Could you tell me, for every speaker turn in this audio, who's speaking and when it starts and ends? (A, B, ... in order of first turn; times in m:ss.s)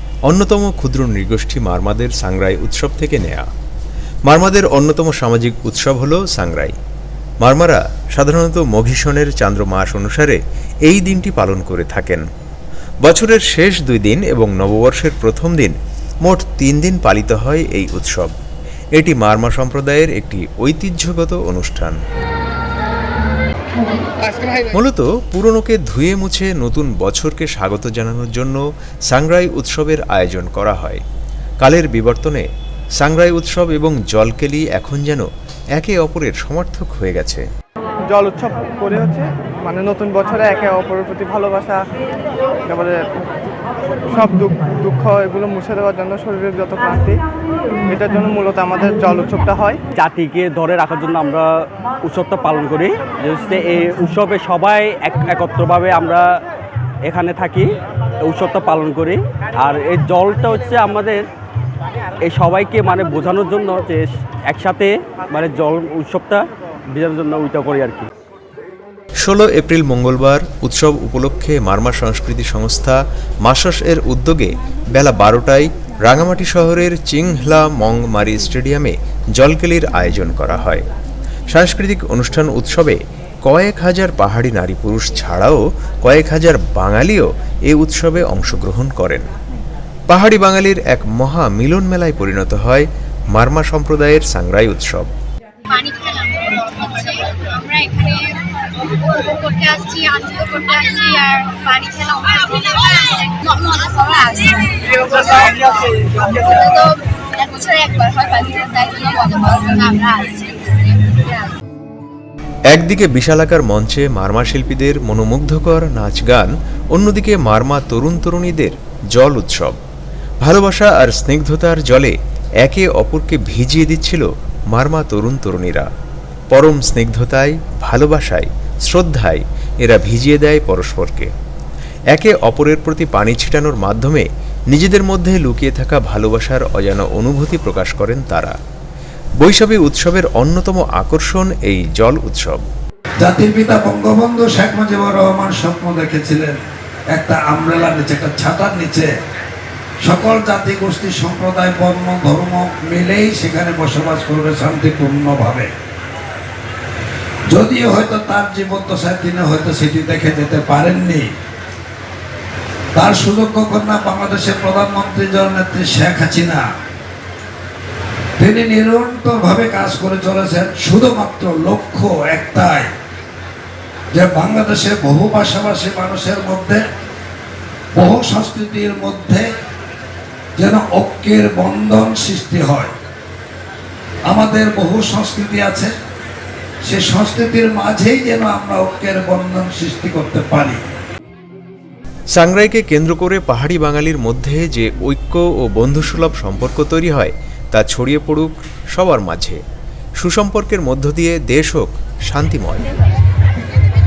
0:00.3-0:03.4 A
0:04.3-0:06.8 A
0:07.4-0:12.3 A
0:13.0-0:18.3 A
0:19.0-0:22.0 A
0:24.6-0:31.0 A
0:31.6-0:32.5 A
0:33.0-0:37.4 A
0:38.1-0:41.8 B
0:42.7-0:43.3 B
0:44.1-0:47.2 B
0:47.9-0:49.8 B
0:50.0-0:51.5 C
0:52.0-0:56.2 C
0:57.1-0:57.7 C
0:58.2-1:01.2 C
1:02.2-1:08.1 C
1:09.2-1:20.8 A
1:21.5-1:29.3 A
1:30.1-1:35.1 A
1:35.7-1:38.4 D
1:39.0-1:51.5 D
1:52.7-1:59.8 A
2:00.4-2:05.9 A
2:06.5-2:11.3 A
2:12.1-2:18.6 A
2:19.4-2:22.7 A
2:23.2-2:26.6 E
2:27.1-2:29.1 E
2:30.0-2:35.7 E
2:37.5-2:41.3 E
2:43.0-2:46.6 E
2:48.4-2:52.9 E
2:54.1-2:56.8 E
2:58.0-2:59.5 E
3:00.6-3:02.9 E
3:04.3-3:05.9 E
3:06.8-3:10.8 E
3:12.3-3:19.6 A
3:20.2-3:22.9 A